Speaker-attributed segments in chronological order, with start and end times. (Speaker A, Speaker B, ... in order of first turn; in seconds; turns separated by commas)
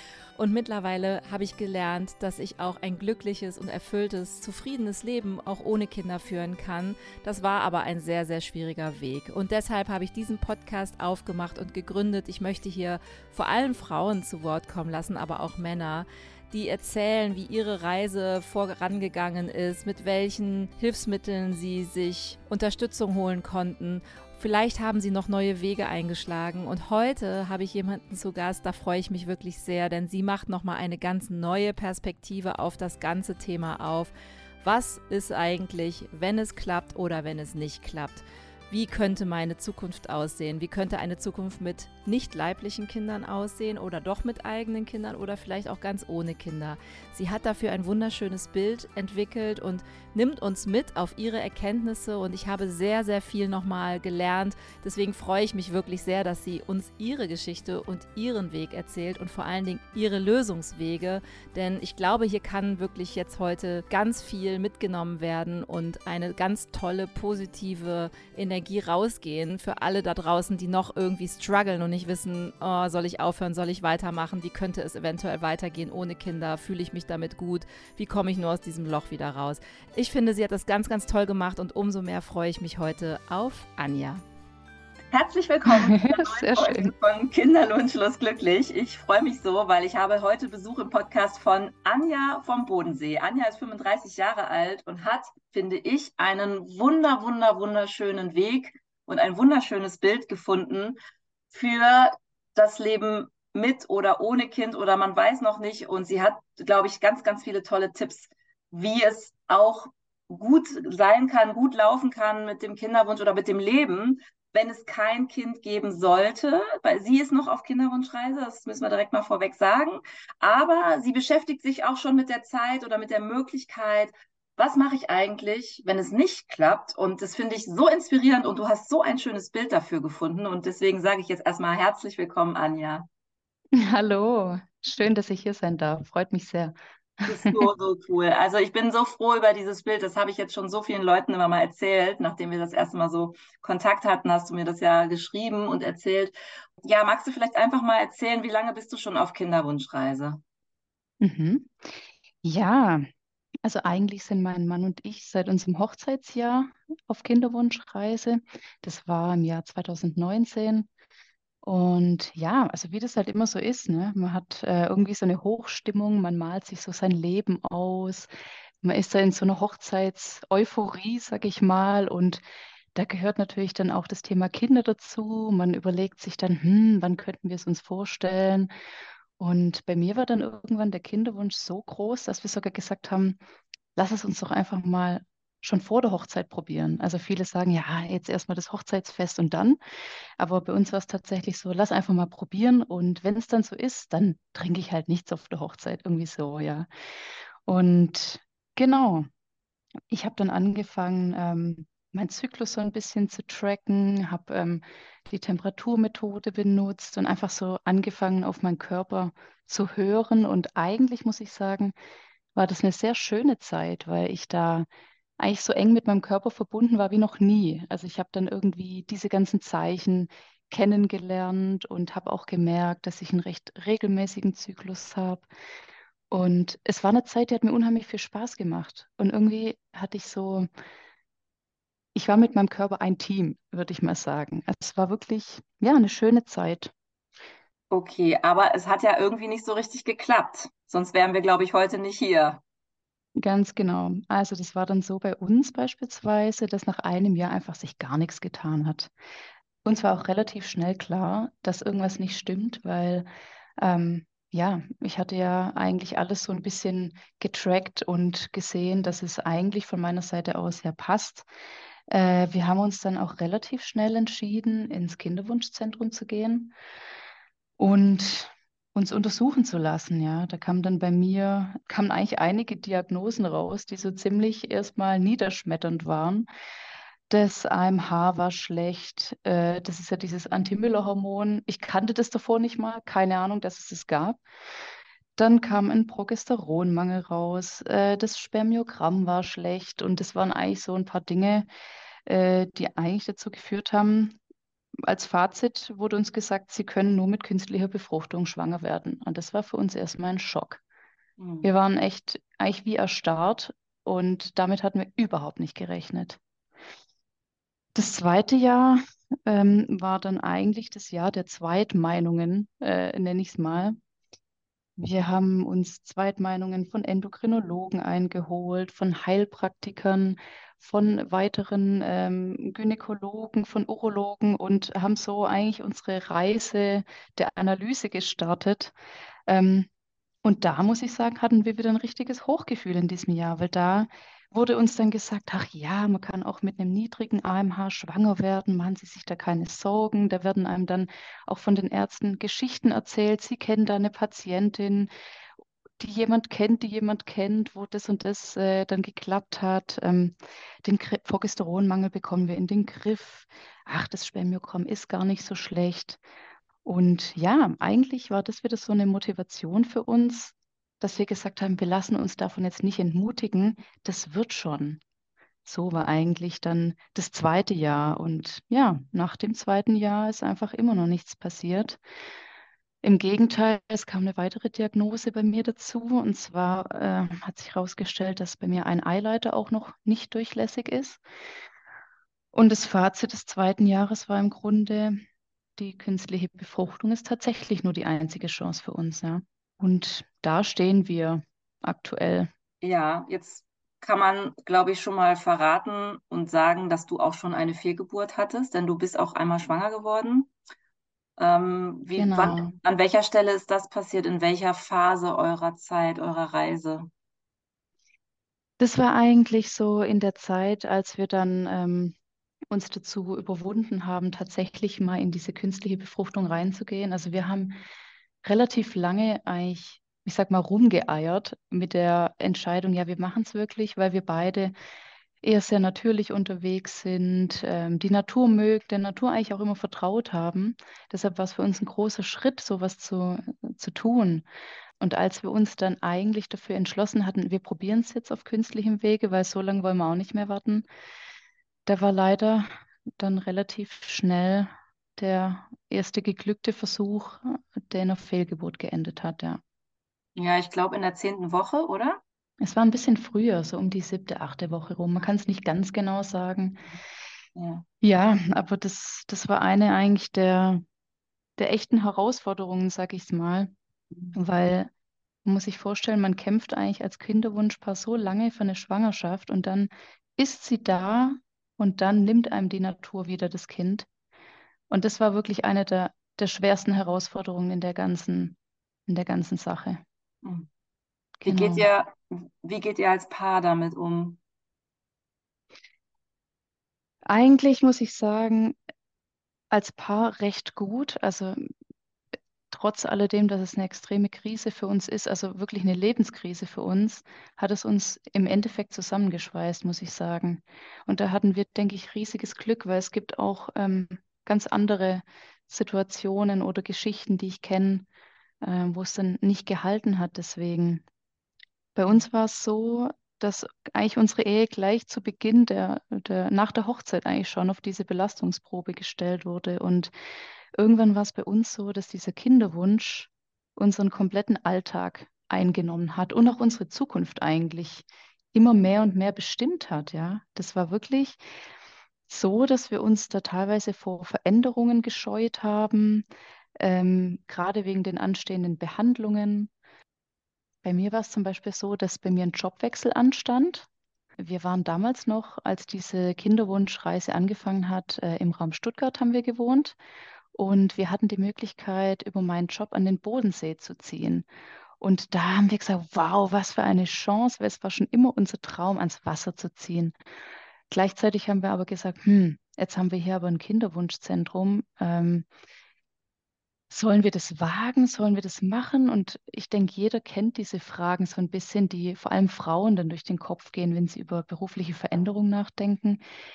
Speaker A: 0.4-84.2, Speaker B: 85.1-101.0, Speaker C: 85.7-86.9, Speaker B: 101.5-133.1, Speaker C: 133.8-137.7, Speaker B: 137.3-150.4, Speaker C: 151.2-153.1, Speaker C: 153.6-160.9, Speaker C: 161.6-168.3, Speaker C: 168.8-172.4, Speaker C: 172.9-178.7, Speaker C: 179.4-183.4, Speaker C: 184.0-189.8, Speaker C: 190.4-196.9, Speaker C: 197.7-199.3, Speaker C: 200.1-211.9, Speaker C: 212.6-214.9, Speaker C: 215.4-225.5, Speaker C: 226.3-230.7, Speaker C: 232.2-236.9, Speaker B: 237.9-242.6, Speaker C: 243.4-249.1, Speaker C: 249.8-253.3, Speaker C: 253.8-261.5, Speaker C: 262.1-266.7, Speaker C: 267.8-276.5, Speaker C: 277.3-284.4, Speaker C: 285.4-291.7, Speaker C: 292.3-294.4, Speaker C: 295.0-300.8, Speaker B: 301.4-301.7, Speaker C: 301.6-306.4, Speaker C: 307.9-314.0, Speaker C: 315.0-328.9, Speaker C: 329.5-329.9, Speaker C: 330.4-345.1, Speaker C: 346.0-356.2, Speaker C: 356.9-365.0, Speaker C: 365.7-372.0, Speaker C: 373.0-381.2, Speaker C: 382.5-385.2, Speaker C: 385.8-392.5, Speaker B: 392.8-400.5, Speaker B: 401.4-407.1, Speaker C: 402.1-402.8, Speaker C: 408.8-412.2, Speaker C: 412.7-417.8, Speaker C: 418.4-424.7, Speaker C: 425.4-434.5, Speaker C: 435.0-440.9, Speaker C: 441.9-449.6, Speaker B: 450.4-452.2, Speaker C: 452.6-456.8, Speaker B: 457.6-457.9, Speaker C: 458.0-460.8, Speaker C: 461.6-463.7, Speaker C: 464.3-464.9, Speaker C: 465.4-474.1, Speaker C: 474.9-478.6, Speaker C: 479.1-480.0, Speaker B: 480.4-480.7, Speaker C: 481.4-481.9, Speaker B: 481.4-484.4, Speaker C: 487.3-488.8, Speaker C: 489.7-491.6, Speaker C: 492.7-508.1, Speaker C: 508.6-511.1, Speaker C: 512.0-520.1, Speaker C: 520.8-531.4, Speaker C: 532.3-536.3, Speaker C: 536.8-539.7, Speaker C: 540.8-543.9, Speaker C: 544.4-550.0, Speaker C: 550.5-554.5, Speaker C: 555.0-560.2, Speaker C: 560.9-565.5, Speaker C: 566.9-576.2